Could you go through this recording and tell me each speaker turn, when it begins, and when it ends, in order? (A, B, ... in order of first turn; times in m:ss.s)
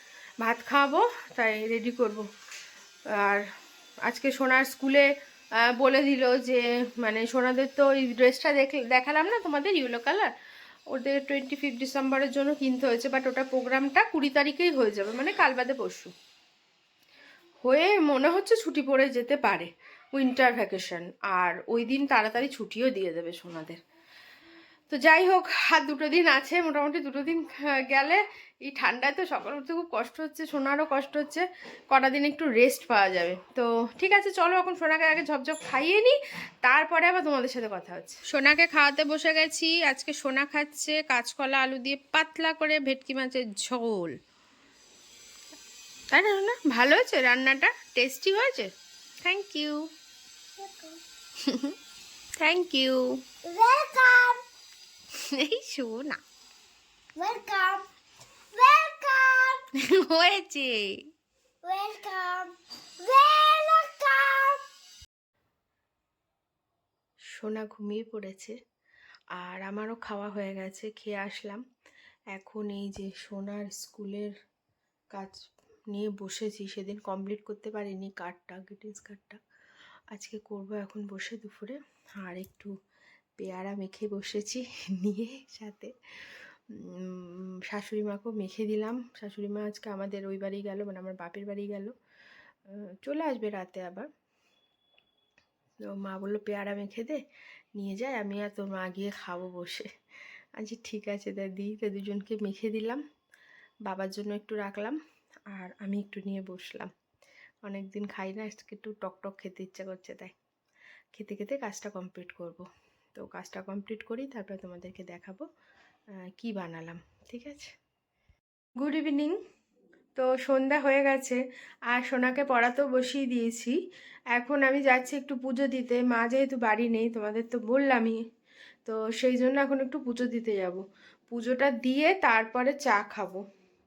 0:00.4-0:02.3 A
0:03.1-0:03.5 A
0:04.0-0:10.3 A
0:10.9-0:16.1 A
0:17.6-0:23.8 A
0:24.9-0:44.1 A
0:46.1-0:48.7 A
0:49.2-0:49.8 A
0:50.6-0:51.0 B
0:51.4-0:51.7 A
0:52.4-0:53.2 A
0:53.4-0:54.4 B
0:55.2-0:56.2 A
0:57.2-0:57.8 B
0:58.5-0:59.6 B
0:59.8-1:01.0 A
1:01.6-1:04.6 B
1:07.3-1:08.6 A
1:09.4-1:11.6 A
1:12.3-1:14.3 A
1:15.1-1:15.4 A
1:15.9-1:19.4 A
1:20.1-1:22.7 A
1:23.4-1:25.9 A
1:26.7-1:31.9 A
1:32.7-1:34.1 A
1:35.8-1:37.2 A
1:37.8-1:39.9 A
1:40.6-1:43.0 A
1:43.8-1:45.0 A
1:45.5-1:46.9 A
1:47.6-1:50.3 A
1:51.1-1:55.4 A
1:56.2-1:57.7 A
1:58.8-1:59.4 A
2:00.1-2:03.8 A
2:04.3-2:08.2 A
2:08.8-2:13.4 A